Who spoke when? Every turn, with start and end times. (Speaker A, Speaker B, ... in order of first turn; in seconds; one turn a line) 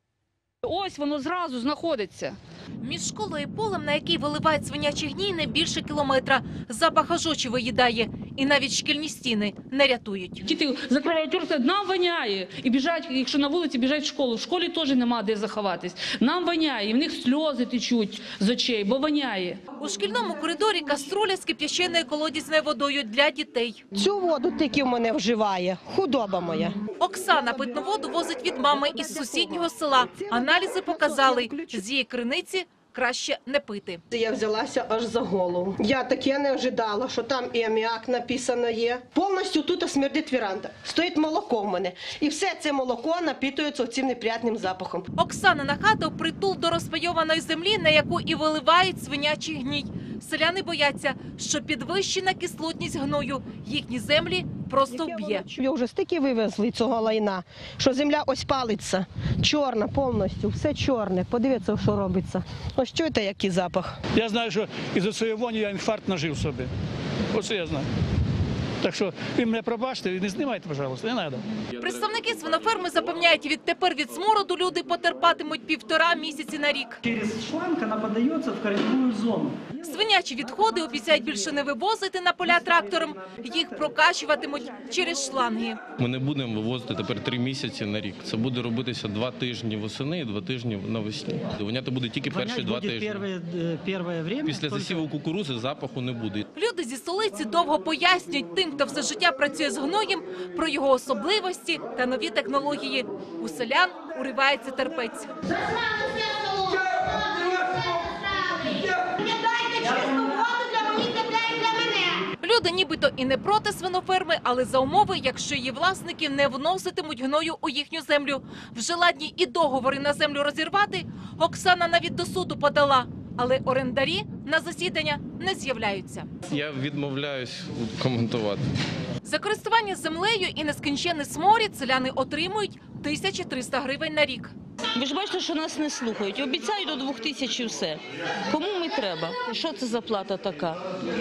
Speaker A: 0.6-2.4
Speaker B: 2.8-10.4
Speaker A: 10.4-19.6
Speaker B: 19.8-23.8
Speaker C: 23.9-26.8
Speaker B: 27.0-34.0
Speaker C: 28.7-31.8
Speaker C: 34.1-45.1
Speaker B: 45.2-55.4
Speaker C: 54.9-64.0
Speaker D: 64.2-66.7
Speaker D: 67.3-67.9
Speaker D: 68.8-71.4
Speaker E: 71.8-73.0
Speaker B: 71.8-77.0
Speaker F: 77.0-79.8
Speaker B: 79.8-85.8
Speaker E: 86.0-93.3
Speaker F: 92.3-95.0
Speaker E: 94.4-96.5
Speaker B: 96.5-105.3
Speaker C: 105.5-112.2
Speaker B: 112.4-126.3
Speaker E: 126.5-128.7
Speaker B: 129.2-134.5
Speaker G: 134.9-140.8